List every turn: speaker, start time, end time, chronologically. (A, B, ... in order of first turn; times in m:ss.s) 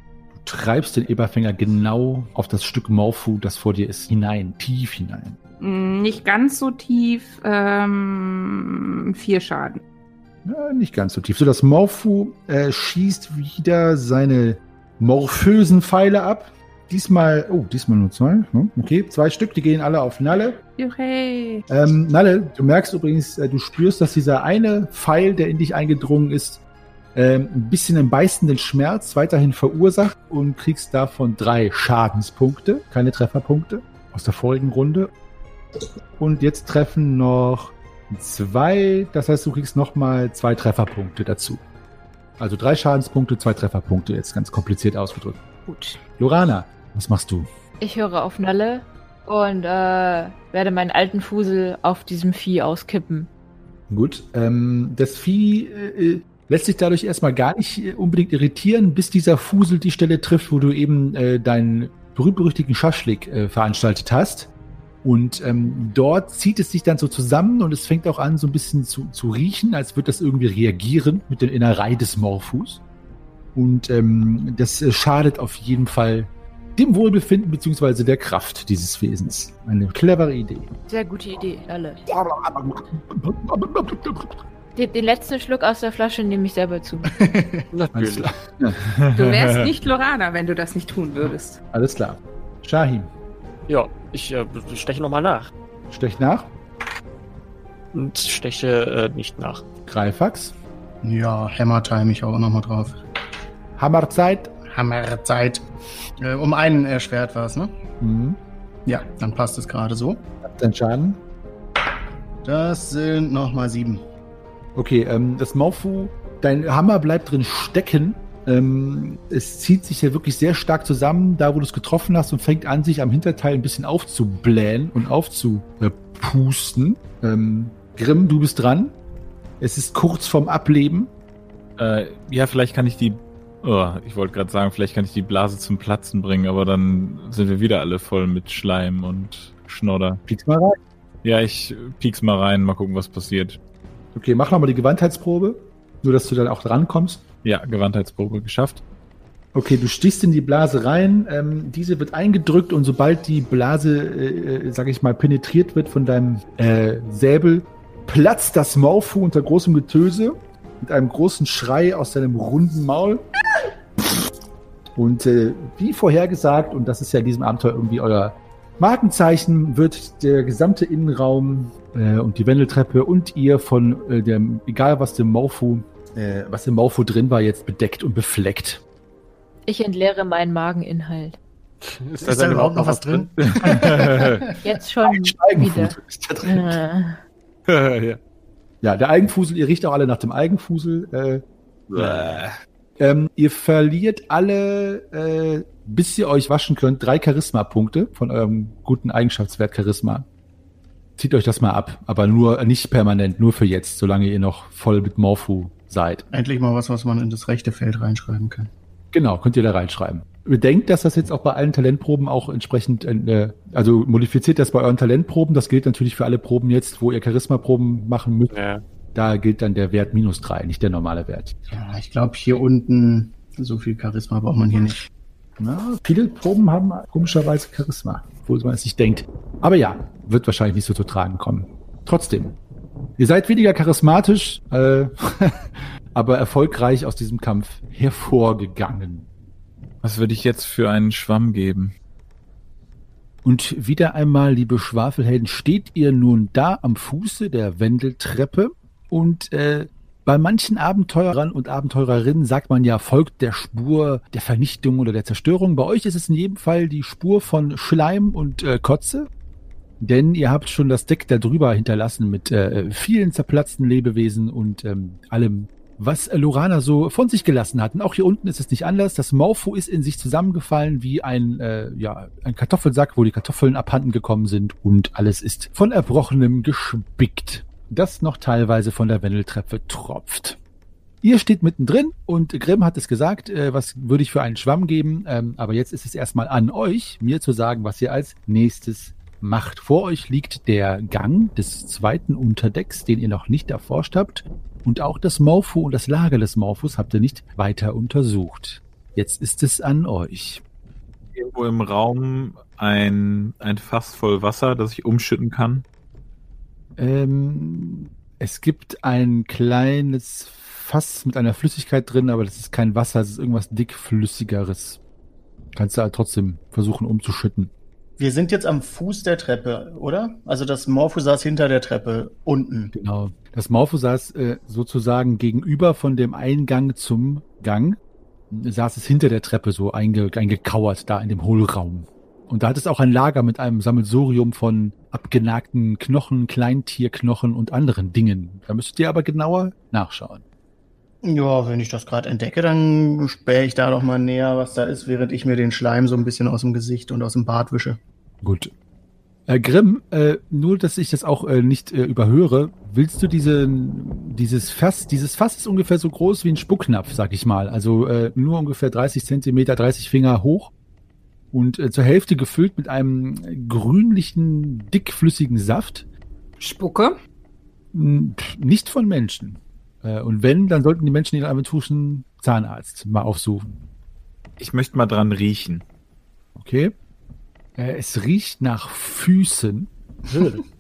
0:00.3-0:05.4 A
0:05.6-0:09.8 B
0:10.4-0:20.6 A
0:20.8-0:21.6 B
0:21.7-0:26.6 A
0:27.1-0:35.1 A
0:36.2-0:41.6 A
0:42.4-0:45.4 A
0:45.6-0:46.0 B
0:46.2-0:47.5 A
0:47.8-0:53.3 C
0:53.9-1:04.5 A
1:05.0-1:12.8 A
1:13.5-1:20.7 A
1:20.9-1:22.0 C
1:22.1-1:24.4 A
1:24.8-1:27.1 C
1:27.1-1:27.6 D
1:27.7-1:28.3 E
1:27.9-1:28.8 A
1:28.8-1:29.4 F
1:29.1-1:31.6 B
1:31.7-1:33.1 A
1:33.7-1:35.5 E
1:35.9-1:36.5 A
1:37.9-1:39.6 E
1:39.9-1:40.5 A
1:41.0-1:43.0 D
1:43.8-1:44.5 A
1:44.7-1:45.6 D
1:46.2-1:47.7 D
1:48.0-1:48.4 A
1:48.9-1:50.2 D
1:50.4-1:51.2 A
1:52.4-1:54.0 D
1:54.7-2:09.0 A
2:09.6-2:11.1 A
2:11.8-2:20.2 F
2:20.3-2:20.8 A
2:21.2-2:23.6 F
2:24.1-2:27.2 A
2:27.4-2:28.8 F
2:29.5-2:43.2 A
2:45.0-2:58.8 A
2:59.7-3:01.4 C
3:01.8-3:03.3 E
3:02.2-3:04.6 D
3:03.6-3:04.4 F
3:04.6-3:07.2 C
3:05.0-3:06.8 A
3:07.7-3:08.2 F
3:08.8-3:11.4 A
3:11.9-3:12.6 F
3:11.9-3:12.4 A
3:13.0-3:20.2 A
3:21.2-3:26.2 A
3:26.3-3:28.7 D
3:29.1-3:38.5 A
3:38.5-3:38.8 E
3:39.1-3:41.5 A
3:41.7-3:45.1 D
3:45.6-3:52.6 A
3:53.2-3:59.3 A
4:00.0-4:01.9 F
4:03.4-4:19.3 A
4:20.0-4:40.6 A
4:41.2-5:00.6 A
5:01.3-5:05.8 F
5:07.0-5:15.0 A
5:15.7-5:17.7 A
5:18.2-5:22.9 D
5:22.9-5:28.0 A
5:28.5-5:40.4 A
5:41.2-5:48.0 D
5:48.4-5:48.7 A
5:49.5-6:00.7 A
6:01.5-6:06.1 A
6:06.6-6:07.1 B
6:07.9-6:13.7 A
6:14.6-6:15.8 F
6:16.6-6:16.9 A
6:17.8-6:19.9 A
6:20.3-6:20.6 E